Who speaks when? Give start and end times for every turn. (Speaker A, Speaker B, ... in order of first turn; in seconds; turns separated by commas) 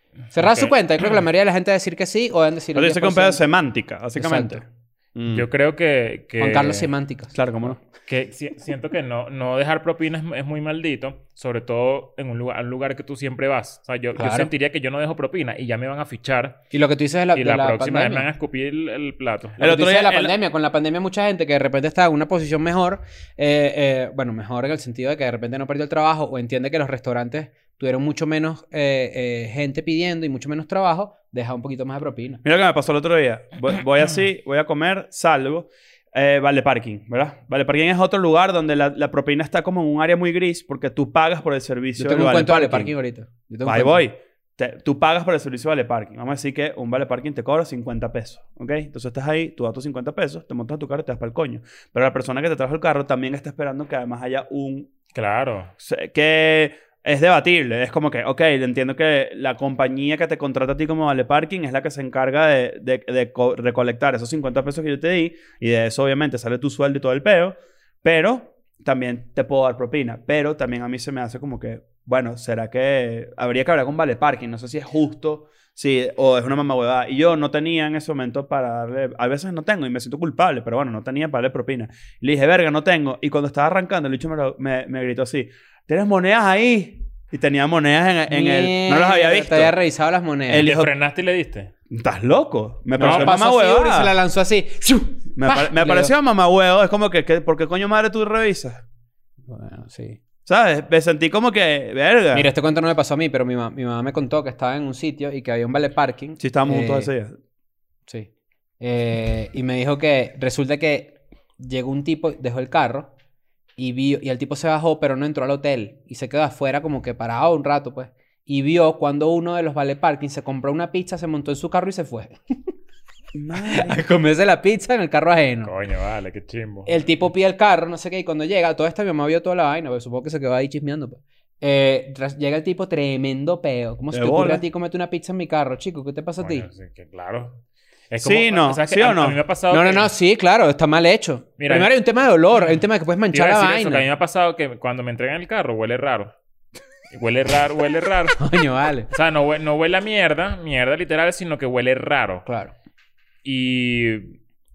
Speaker A: 0.3-0.7, Speaker B: 0.3-3.4, Speaker C: 2.7-5.5, Speaker B: 4.2-4.6, Speaker A: 5.3-6.9, Speaker B: 6.4-7.3, Speaker C: 7.3-7.8, Speaker A: 8.1-16.6, Speaker B: 14.2-14.5, Speaker B: 16.7-18.3, Speaker A: 17.3-19.6, Speaker C: 19.6-20.3, Speaker B: 19.6-32.4, Speaker C: 32.4-42.9, Speaker B: 42.0-44.0, Speaker C: 43.6-54.9, Speaker A: 55.1-55.7, Speaker C: 55.8-89.8, Speaker B: 88.3-90.7, Speaker C: 90.5-90.9, Speaker A: 90.6-91.7, Speaker C: 91.9-94.1, Speaker B: 93.0-96.1, Speaker A: 93.0-93.3, Speaker C: 95.3-98.8, Speaker B: 99.5-100.2, Speaker C: 100.5-102.5, Speaker B: 102.3-107.1, Speaker C: 106.4-107.4, Speaker B: 108.8-113.1, Speaker B: 113.8-122.4, Speaker C: 123.3-124.0, Speaker B: 123.6-125.7, Speaker A: 125.6-127.1, Speaker B: 126.8-136.7, Speaker C: 134.1-134.6, Speaker A: 136.4-140.1, Speaker C: 138.2-139.4, Speaker B: 139.7-144.0, Speaker A: 141.6-141.9, Speaker A: 143.3-146.3, Speaker A: 147.1-148.4, Speaker B: 148.4-149.1, Speaker A: 149.1-152.4, Speaker B: 152.4-152.7, Speaker A: 153.4-154.4